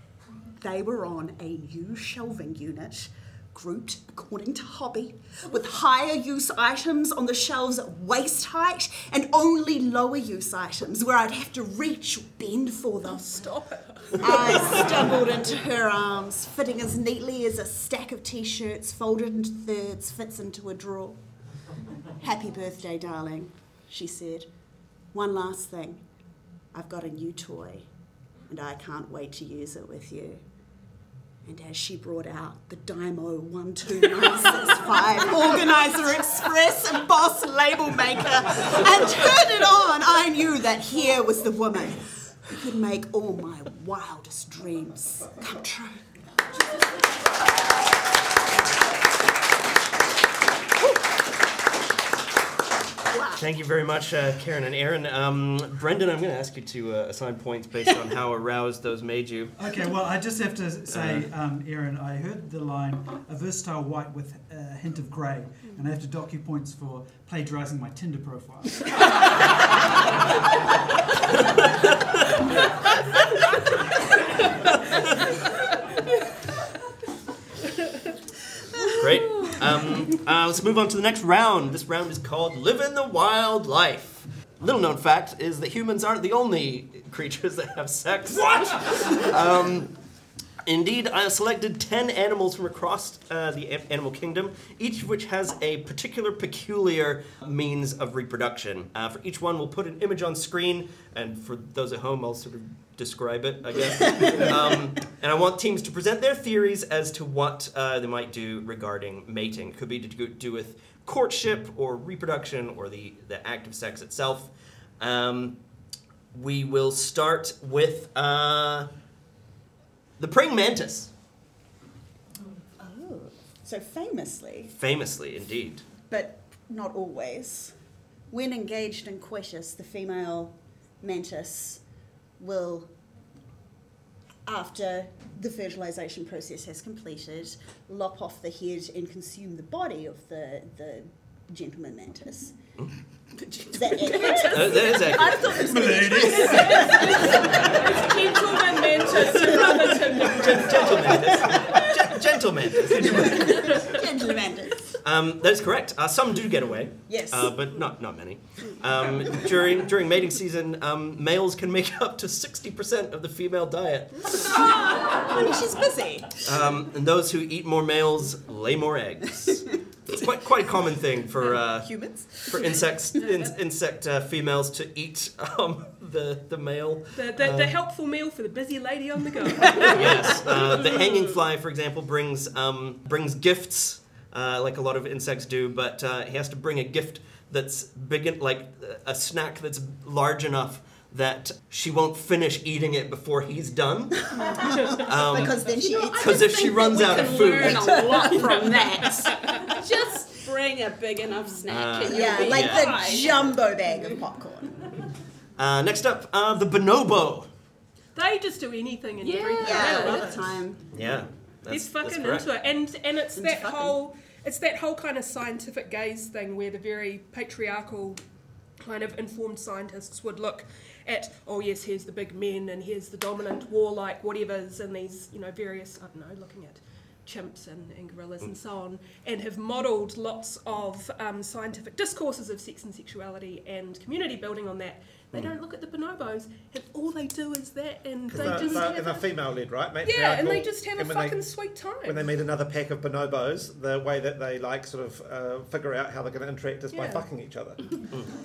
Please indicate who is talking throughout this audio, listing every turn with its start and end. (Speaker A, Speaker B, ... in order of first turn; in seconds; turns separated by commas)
Speaker A: 0.6-13.5, Speaker B: 13.4-14.3, Speaker A: 14.1-21.2, Speaker A: 22.2-24.5, Speaker A: 25.1-26.0, Speaker A: 26.7-27.9, Speaker A: 28.5-30.4, Speaker A: 31.4-46.0, Speaker A: 53.1-53.4, Speaker C: 53.4-59.5, Speaker D: 59.6-68.9, Speaker C: 60.9-61.3, Speaker C: 71.4-72.5, Speaker C: 74.8-75.1, Speaker C: 78.9-89.9, Speaker C: 90.6-115.6, Speaker A: 104.1-104.5, Speaker C: 116.3-118.9, Speaker C: 120.2-121.1, Speaker A: 122.8-124.7, Speaker C: 124.8-125.8, Speaker A: 126.1-127.7, Speaker A: 128.3-131.8, Speaker A: 132.4-132.9, Speaker A: 134.4-142.6, Speaker A: 143.7-147.7, Speaker E: 144.1-144.3, Speaker C: 144.4-145.5, Speaker D: 145.5-146.8, Speaker E: 145.5-147.8, Speaker B: 146.1-151.8, Speaker C: 150.1-153.7, Speaker A: 152.9-154.9, Speaker C: 155.0-164.5, Speaker A: 157.1-157.6, Speaker A: 164.3-166.4, Speaker C: 166.4-177.7, Speaker B: 177.1-181.0, Speaker C: 179.7-195.6, Speaker A: 194.3-199.8, Speaker E: 195.6-203.5, Speaker C: 196.2-198.1, Speaker C: 201.7-202.9, Speaker A: 202.0-204.8, Speaker C: 205.6-207.5, Speaker B: 208.2-210.4, Speaker E: 209.2-210.4, Speaker A: 209.6-210.9, Speaker C: 210.9-212.5, Speaker B: 211.7-218.2, Speaker A: 213.3-214.0, Speaker B: 218.8-239.3, Speaker F: 238.3-241.5, Speaker B: 240.0-242.3, Speaker F: 242.0-247.9, Speaker B: 246.9-247.3